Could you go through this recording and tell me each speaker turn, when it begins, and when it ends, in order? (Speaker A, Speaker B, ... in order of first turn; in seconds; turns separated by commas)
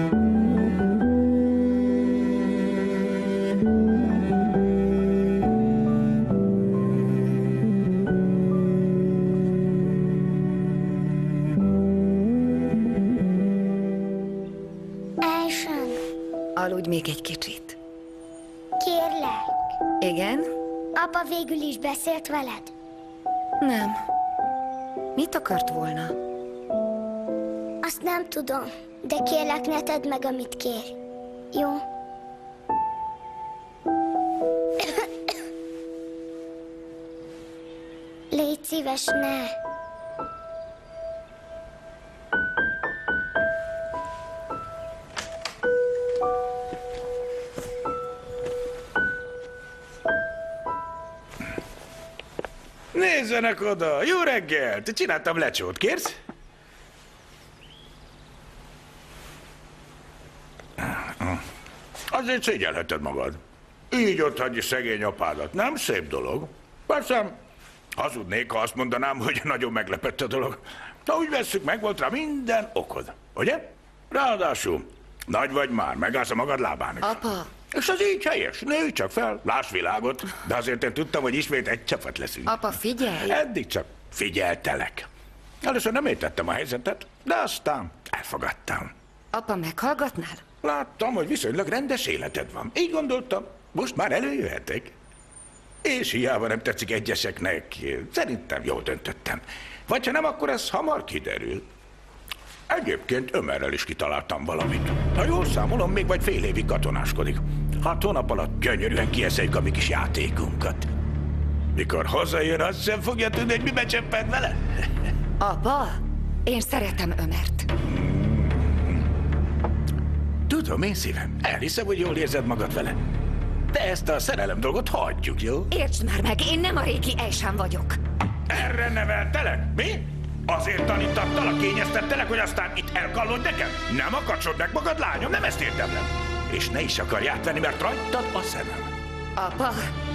Speaker A: 15.2-16.0, Speaker B: 16.6-17.8, Speaker A: 18.8-19.7, Speaker B: 20.0-20.5, Speaker A: 21.0-22.7, Speaker B: 23.6-24.0, Speaker B: 25.2-26.1, Speaker A: 27.8-31.0, Speaker A: 31.5-31.8, Speaker A: 38.3-39.5, Speaker C: 52.9-56.2, Speaker C: 60.8-61.4, Speaker C: 62.1-67.3, Speaker C: 68.0-85.1, Speaker B: 77.0-77.5, Speaker B: 82.5-83.4, Speaker C: 85.6-88.9, Speaker B: 89.3-90.4, Speaker C: 90.6-94.9, Speaker C: 95.8-101.7, Speaker C: 102.7-110.9, Speaker C: 111.8-114.6, Speaker B: 115.4-117.7, Speaker C: 117.9-119.0, Speaker C: 120.5-123.0, Speaker C: 123.7-125.7, Speaker B: 125.7-128.0, Speaker C: 128.5-138.9, Speaker B: 139.4-139.9